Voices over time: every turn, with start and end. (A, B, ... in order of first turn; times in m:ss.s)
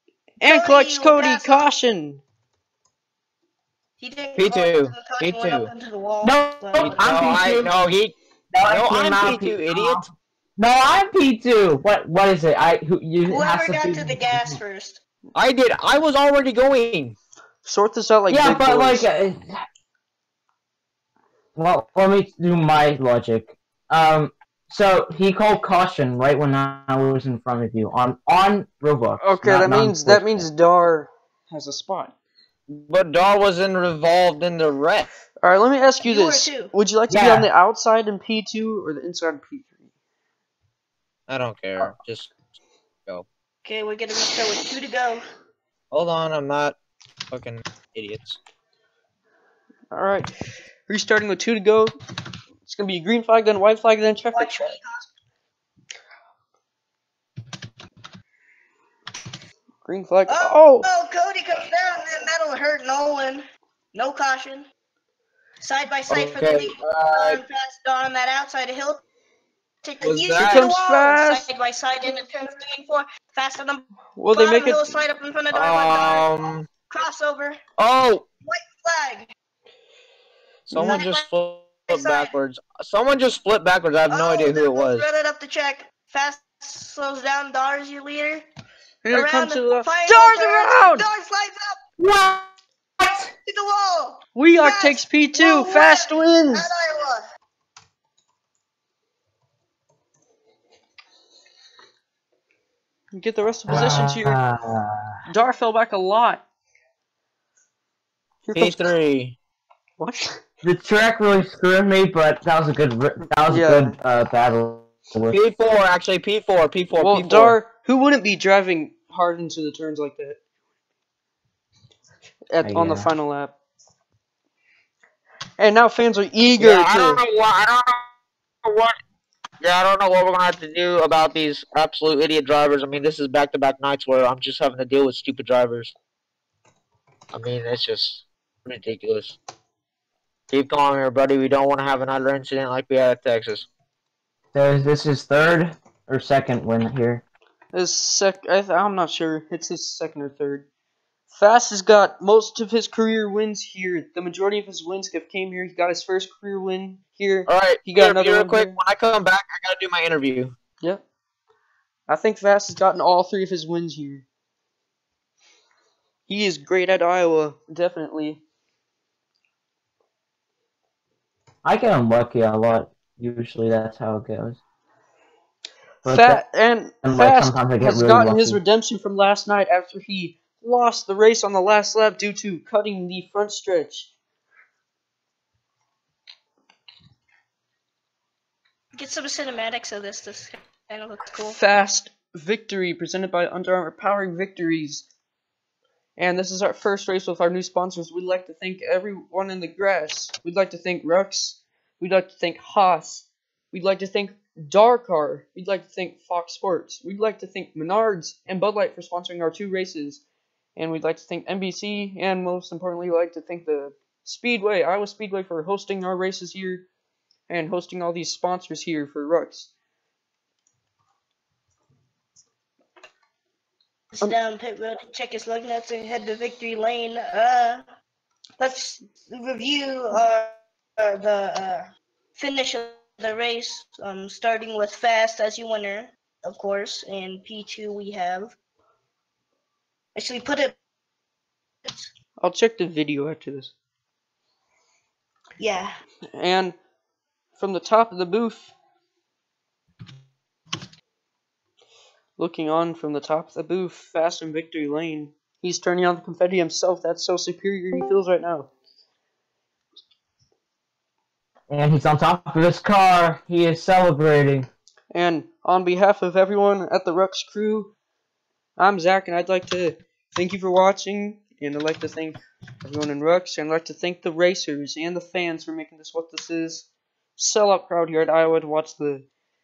0:00.4-0:02.2 A
0:00.4-0:01.7 B
0:04.0-0:07.0 B
0:04.4-0:05.7 C
0:06.2-0:07.7 D
0:06.8-0:08.1 C
0:08.5-0:10.0 D
0:08.6-0:10.0 C
0:10.6-0:14.6 D
0:13.3-0:15.0 B
0:15.3-0:17.2 C
0:17.6-0:19.1 A
0:18.3-0:19.6 D
0:21.5-0:30.5 D
0:29.2-0:32.1 A
0:32.7-0:35.1 C
0:35.4-0:39.8 A
0:36.0-0:36.7 B
0:37.1-0:37.5 D
0:41.3-0:42.3 C
0:43.6-0:45.2 B
0:45.9-0:46.8 C
0:47.3-0:48.4 C
0:49.9-0:50.3 A
0:50.9-0:51.9 A
0:52.6-0:54.7 A
0:54.3-0:55.0 B
0:59.8-1:00.9 A
1:00.3-1:04.6 B
1:05.6-1:09.0 B
1:06.1-1:07.4 C
1:09.8-1:16.3 B
1:10.0-1:10.7 C
1:10.4-1:11.5 A
1:14.2-1:14.9 A
1:15.5-1:16.7 C
1:16.9-1:17.6 B
1:17.8-1:18.2 C
1:18.4-1:19.3 B
1:20.7-1:25.1 C
1:20.7-1:21.2 B
1:21.9-1:22.3 B
1:24.1-1:28.4 B
1:29.0-1:31.1 A
1:29.1-1:31.8 B
1:32.0-1:32.4 D
1:33.0-1:33.3 D
1:33.4-1:37.2 B
1:34.3-1:36.7 A
1:43.1-1:44.4 A
1:43.7-1:45.1 D
1:45.3-1:46.4 A
1:48.4-1:48.9 A
1:48.5-1:49.4 C
1:50.0-1:50.4 A
1:50.6-1:55.4 D
1:53.5-1:54.0 A
1:55.3-1:57.6 C
1:57.0-2:00.4 A
2:02.5-2:03.5 A
2:02.6-2:03.1 D
2:05.6-2:07.2 A
2:06.6-2:08.1 C
2:08.6-2:08.9 C
2:09.6-2:15.9 C
2:17.3-2:19.4 C
2:20.5-2:23.6 C
2:24.5-2:27.2 D
2:27.7-2:30.6 A
2:31.3-2:38.8 A
2:37.5-2:40.5 C
2:42.1-2:44.2 A
2:46.3-2:48.4 A
2:51.6-2:54.6 D
2:56.0-3:04.1 A
2:56.0-2:56.4 D
2:57.0-2:58.6 D
3:08.9-3:11.6 B
3:11.4-3:15.0 A
3:16.2-3:30.2 A
3:30.8-3:36.8 A
3:37.5-3:39.7 A
3:44.1-3:47.8 B
3:48.6-3:58.5 B
4:00.1-4:00.8 B
4:02.4-4:03.7 A
4:05.6-4:05.9 B
4:06.3-4:06.8 A
4:07.6-4:08.7 A
4:12.4-4:18.7 A
4:21.7-4:24.7 D
4:25.1-4:27.9 A
4:28.8-4:39.2 A